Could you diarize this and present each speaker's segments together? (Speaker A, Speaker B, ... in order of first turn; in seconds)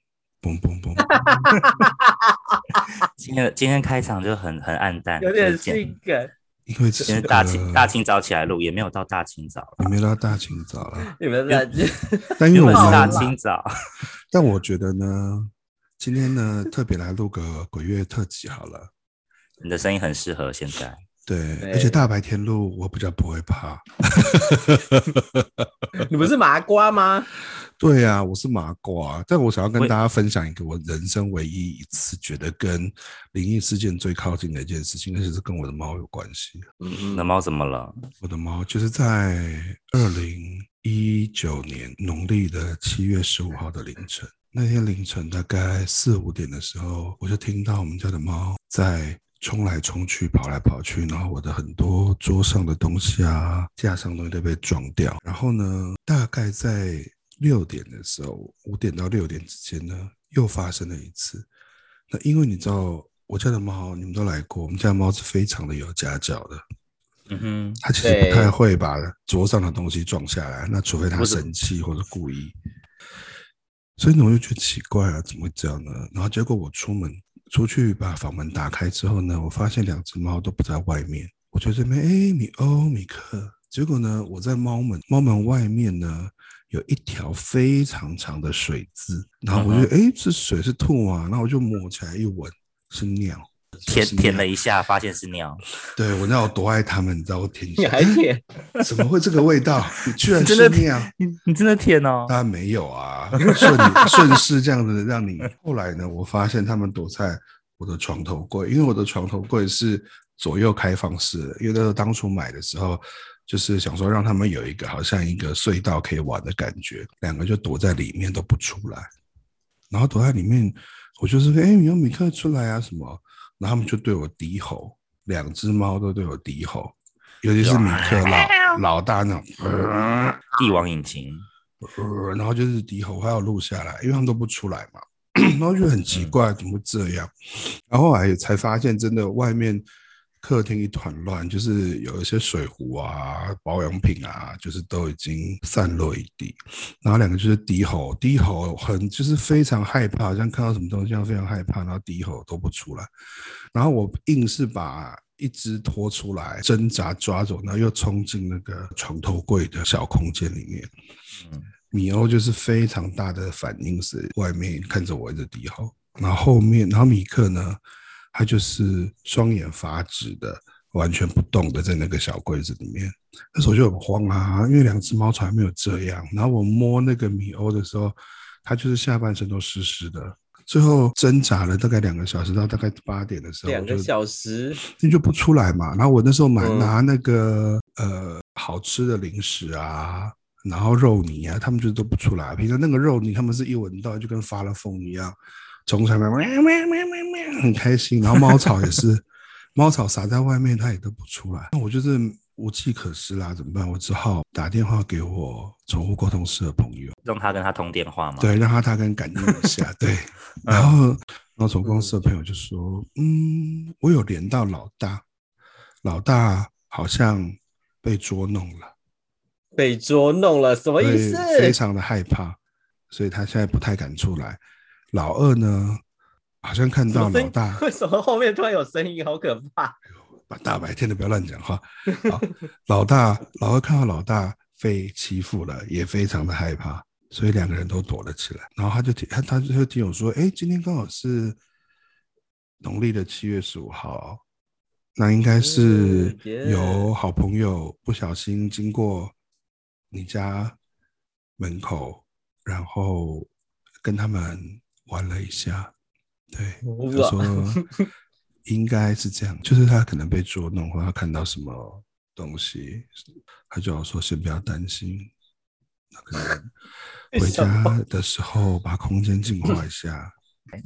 Speaker A: 0.4-1.2, 6.7-7.9, 9.8-11.1, 12.4-13.3, 14.3-18.9, 21.2-25.7, 27.8-36.6, 38.2-61.5, 62.1-66.6, 67.8-72.5, 74.0-94.5, 95.9-98.2, 98.8-101.1, 102.3-119.1, 119.9-130.4, 131.8-139.9, 140.4-153.1, 153.7-160.9, 161.9-167.8, 168.3-184.1, 184.8-195.4, 195.9-207.2, 208.4-215.2, 216.0-218.9, 221.0-224.6, 225.1-226.0, 226.6-227.8, 230.1-241.6, 242.8-244.4, 245.2-249.3, 250.1-250.8, 251.6-253.5, 254.0-255.9, 256.5-257.8, 258.7-263.1, 263.7-265.3, 266.1-266.7, 267.4-270.3
Speaker B: 1.0-2.8, 5.2-6.3, 11.1-13.3, 21.6-22.1, 26.0-27.3, 36.8-37.3, 68.0-68.5, 97.8-98.4, 103.5-104.2, 183.7-184.8, 186.6-187.0, 211.8-212.1, 219.8-221.8, 227.1-230.0, 245.5-247.1, 256.8-258.1, 267.3-268.0
Speaker C: 3.0-5.8, 7.1-10.0, 12.5-13.8, 19.6-21.0, 37.1-38.0, 67.3-67.8, 71.2-71.5, 89.5-89.9, 93.9-95.6, 100.3-102.3, 127.6-128.8, 130.6-131.5, 136.1-136.4, 161.4-161.7, 198.3-199.0, 207.2-208.5, 209.4-209.7, 210.6-210.9